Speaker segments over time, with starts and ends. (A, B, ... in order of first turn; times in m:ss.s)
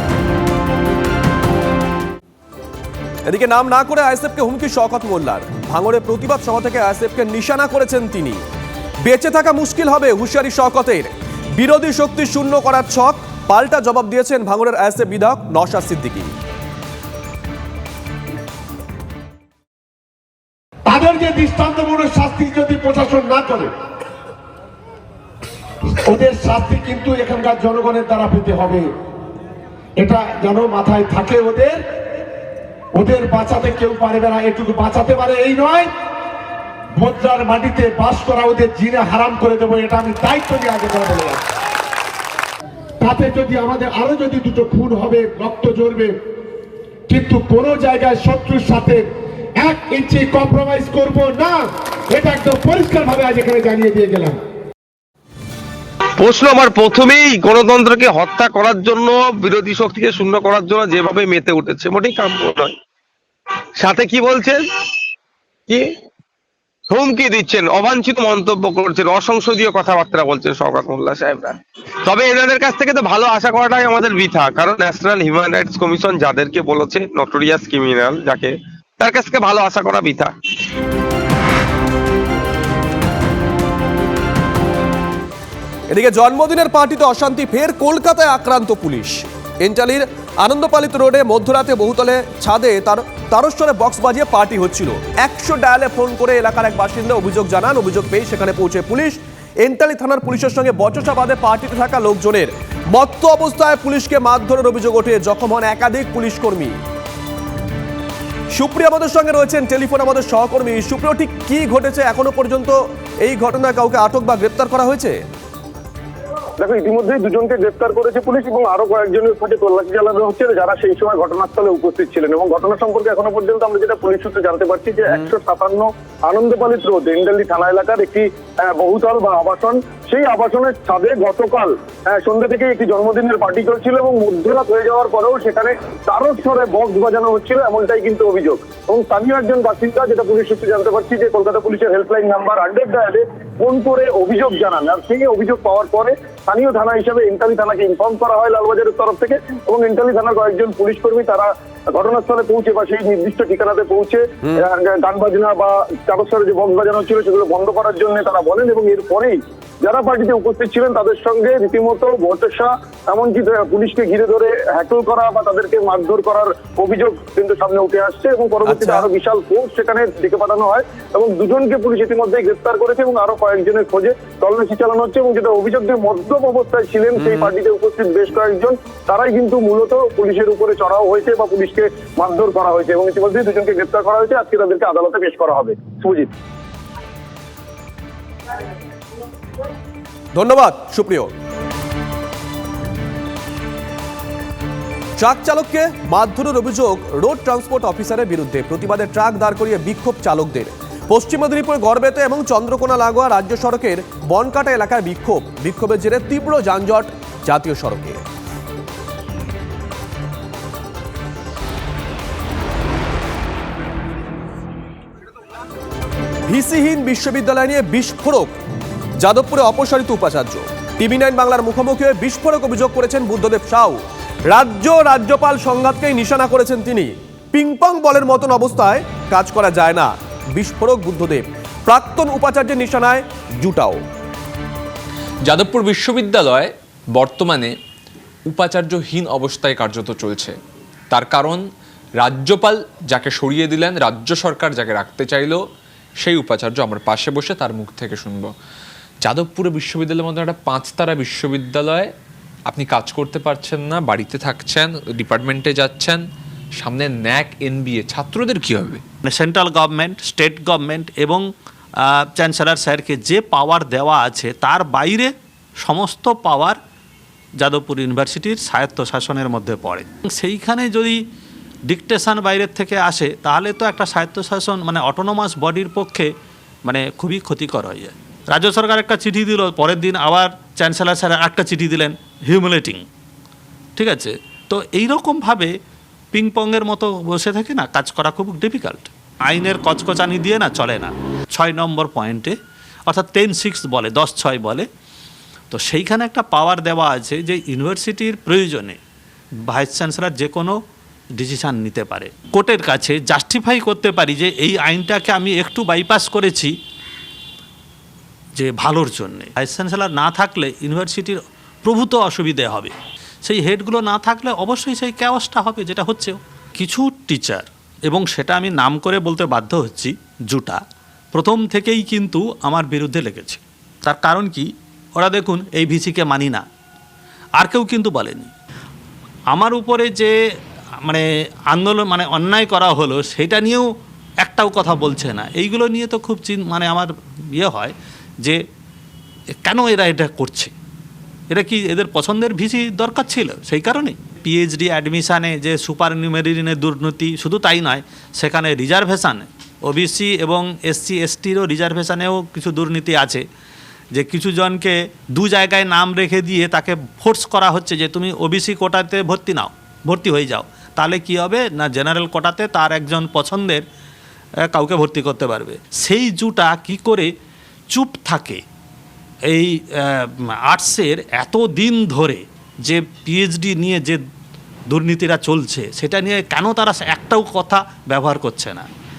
0:03.3-0:08.4 A
0:09.0-0:16.3 A
0:20.9-0:23.7 B
0:26.1-0:28.8 B
0:30.0-0:31.8 B
0:33.0-0:35.9 B
0:37.1-0:41.3 B
0:41.1-0:41.4 C
0:43.0-0:43.4 C
0:43.1-0:46.1 B
0:44.9-0:45.6 C
0:47.2-0:49.0 B
0:49.6-0:51.2 C
0:49.8-0:51.6 B
0:52.1-0:52.4 C
0:52.3-0:54.3 B
0:53.8-0:54.4 C
0:56.2-1:02.8 D
1:03.8-1:04.7 D
1:06.9-1:20.3 D
1:25.9-1:46.7 A
1:48.5-1:52.7 A
1:53.2-1:55.2 A
1:56.6-3:06.3 C
2:48.7-2:49.0 A
3:10.3-3:11.3 A
3:15.2-3:28.2 A
3:36.5-3:38.5 A
3:39.2-3:44.0 A
3:44.5-3:54.0 A
3:55.4-3:57.7 E
3:58.5-4:00.6 E
4:01.1-4:01.6 E
4:02.2-4:05.6 E
4:06.2-4:08.5 E
4:09.2-4:12.1 E
4:12.7-4:16.2 E
4:16.8-4:19.0 E
4:19.2-4:21.4 F
4:22.1-4:26.8 F
4:27.6-4:31.2 F
4:31.9-4:36.3 F
4:36.9-4:43.0 F
4:44.0-4:45.7 F
4:46.3-4:52.5 F
4:53.1-4:54.9 F
4:55.7-4:59.0 F
4:59.7-5:00.8 F
5:01.4-5:06.7 F
5:08.6-5:20.8 F
5:21.3-5:26.6 F
5:27.6-5:28.5 F
5:29.5-5:30.3 F
5:31.0-5:33.9 F
5:34.4-5:38.6 F
5:39.6-5:40.7 F
5:41.5-5:53.4 F
5:54.1-6:03.8 F
6:04.7-6:07.3 F
6:07.9-6:08.6 F
6:09.5-6:14.2 F
6:14.9-6:18.9 F